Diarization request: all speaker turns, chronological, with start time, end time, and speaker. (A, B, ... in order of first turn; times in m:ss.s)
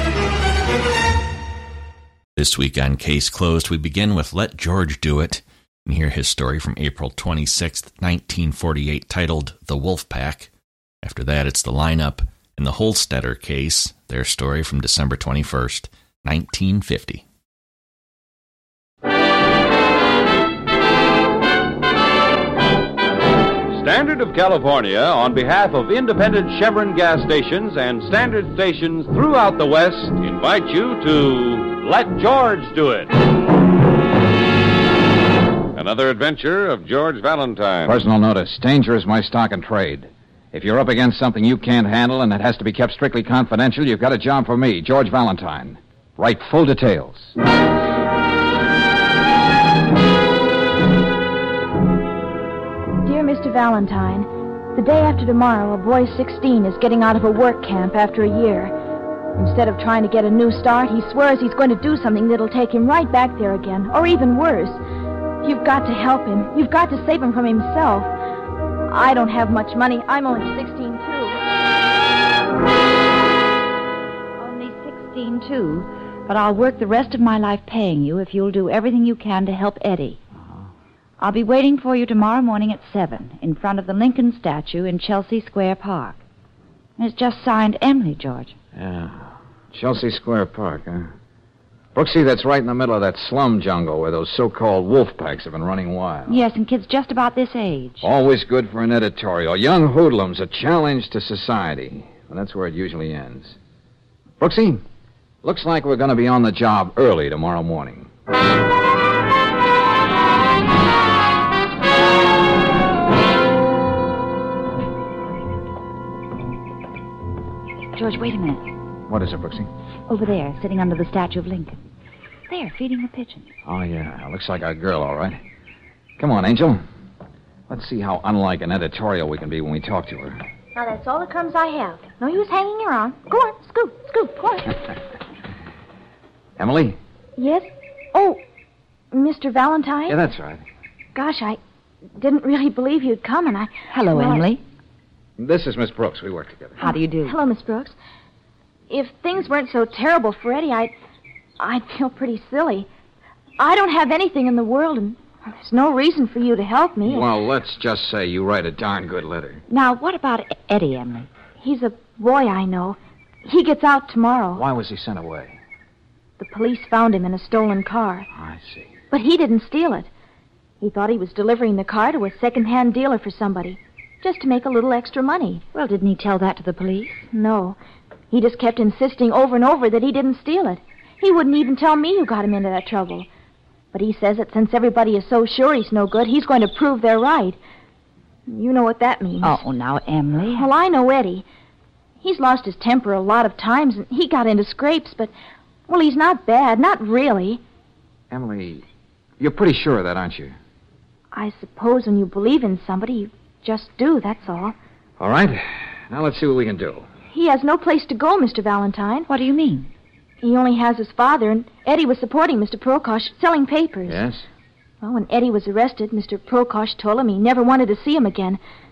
0:02.4-0:10.5 A
0:11.0-0:17.2 A
0:23.7-0:33.1 B
0:35.7-0:38.0 B
0:37.8-0:47.3 C
0:53.0-0:58.7 D
0:59.4-1:04.8 D
1:05.4-1:08.1 D
1:08.9-1:11.4 D
1:14.4-1:20.2 E
1:21.2-1:26.2 E
1:27.0-1:28.5 E
1:28.7-1:31.1 C
1:31.9-1:36.4 C
1:36.3-1:38.1 E
1:38.0-1:43.6 C
1:44.4-1:44.8 C
1:45.4-1:48.1 C
1:57.9-1:58.7 E
1:59.1-1:59.7 C
2:00.1-2:01.8 E
2:02.5-2:03.5 E
2:03.6-2:05.4 C
2:06.2-2:06.8 C
2:07.7-2:10.4 C
2:10.7-2:14.8 D
2:16.6-2:17.0 C
2:17.4-2:18.4 D
2:19.1-2:20.2 D
2:20.1-2:20.6 C
2:21.1-2:21.6 D
2:22.2-2:24.4 D
2:23.9-2:24.6 E
2:25.4-2:26.8 C
2:26.8-2:27.4 E
2:26.8-2:28.0 D
2:28.9-2:30.9 D
2:31.6-2:32.9 D
2:33.6-2:37.2 D
2:37.0-2:39.6 C
2:39.7-2:41.3 E
2:41.6-2:44.6 D
2:44.5-2:45.6 C
2:46.4-2:48.3 D
2:48.3-2:49.0 C
2:49.1-2:50.1 D
2:50.8-2:55.6 D
2:55.7-2:57.3 E
2:57.3-2:57.8 D
2:58.3-3:03.3 D
3:03.9-3:07.6 D
3:08.5-3:09.6 D
3:09.4-3:10.7 E
3:10.5-3:11.4 D
3:12.2-3:15.3 D
3:15.9-3:17.6 D
3:18.3-3:18.8 C
3:19.4-3:20.6 C
3:21.3-3:24.7 D
3:25.2-3:27.1 C
3:27.3-3:29.3 D
3:29.3-3:29.9 E
3:30.4-3:34.2 D
3:34.0-3:34.5 C
3:35.0-3:38.6 D